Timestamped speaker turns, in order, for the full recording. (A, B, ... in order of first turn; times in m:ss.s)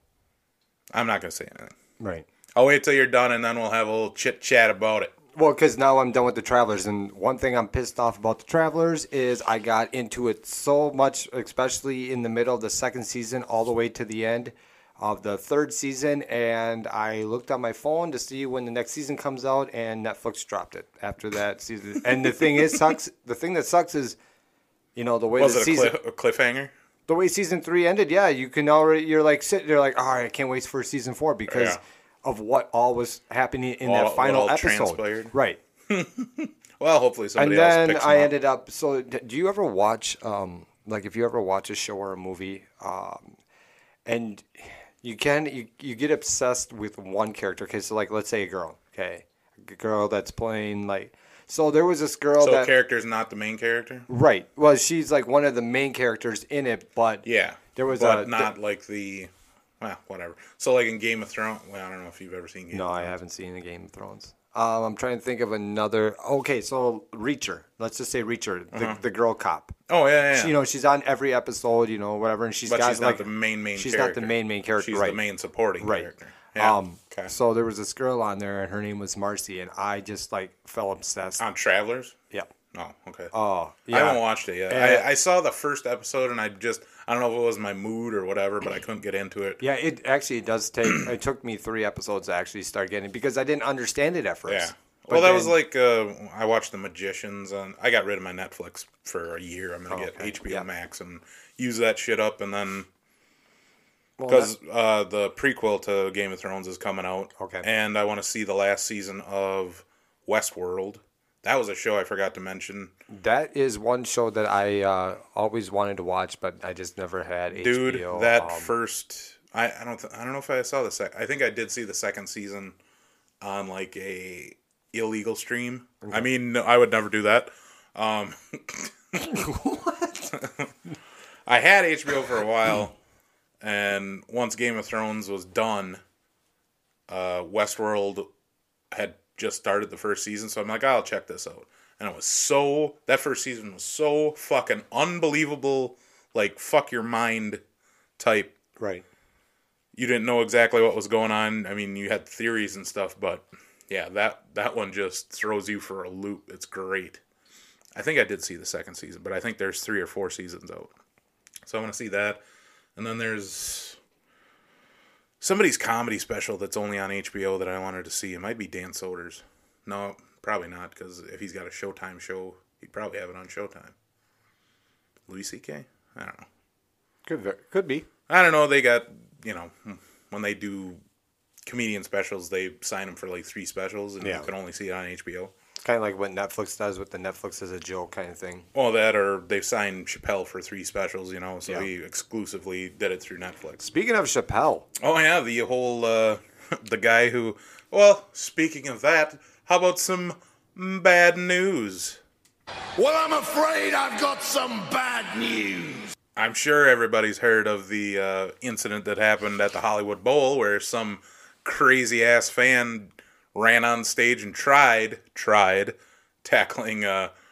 0:00.9-0:01.7 A
0:02.0-0:02.2 B
0:02.6-0:05.1 A
0:05.3-0:24.2 B
0:25.0-0:26.0 B
0:25.4-0:26.7 A
0:27.1-0:35.6 B
0:31.5-0:31.8 A
0:33.8-0:35.3 A
0:35.9-0:38.3 A
0:37.4-0:43.4 B
0:44.0-0:52.7 B
0:52.4-0:54.1 A
0:54.1-0:58.5 B
0:57.2-1:03.1 A
1:02.7-1:09.8 B
1:08.7-1:09.0 A
1:09.9-1:10.5 A
1:10.3-1:15.2 B
1:12.7-1:17.3 A
1:15.8-1:21.4 B
1:21.4-1:22.2 A
1:22.7-1:23.3 A
1:23.3-1:25.0 B
1:23.9-1:29.6 A
1:29.6-1:35.5 B
1:34.4-1:42.9 A
1:39.9-1:40.7 B
1:44.2-1:44.5 B
1:44.3-1:52.9 A
1:47.4-1:47.6 B
1:53.1-1:58.7 B
1:57.5-2:02.7 A
2:03.4-2:09.2 A
2:09.2-2:10.3 B
2:10.3-2:10.7 A
2:11.4-2:12.9 A
2:13.6-2:16.0 A
2:17.1-2:18.3 A
2:18.9-2:27.6 A
2:28.2-2:28.5 A
2:28.8-2:29.0 B
2:29.9-2:37.2 A
2:37.9-2:40.9 A
2:41.6-2:42.4 A
2:43.0-2:44.0 A
2:45.4-2:53.9 A
2:55.3-2:56.4 A
2:57.2-2:58.0 B
2:58.3-3:01.0 A
3:01.6-3:05.5 A
3:04.2-3:04.5 B
3:05.8-3:08.7 B
3:08.7-3:13.8 A
3:13.8-3:14.8 B
3:15.0-3:22.2 A
3:23.0-3:26.1 C
3:26.4-3:37.3 A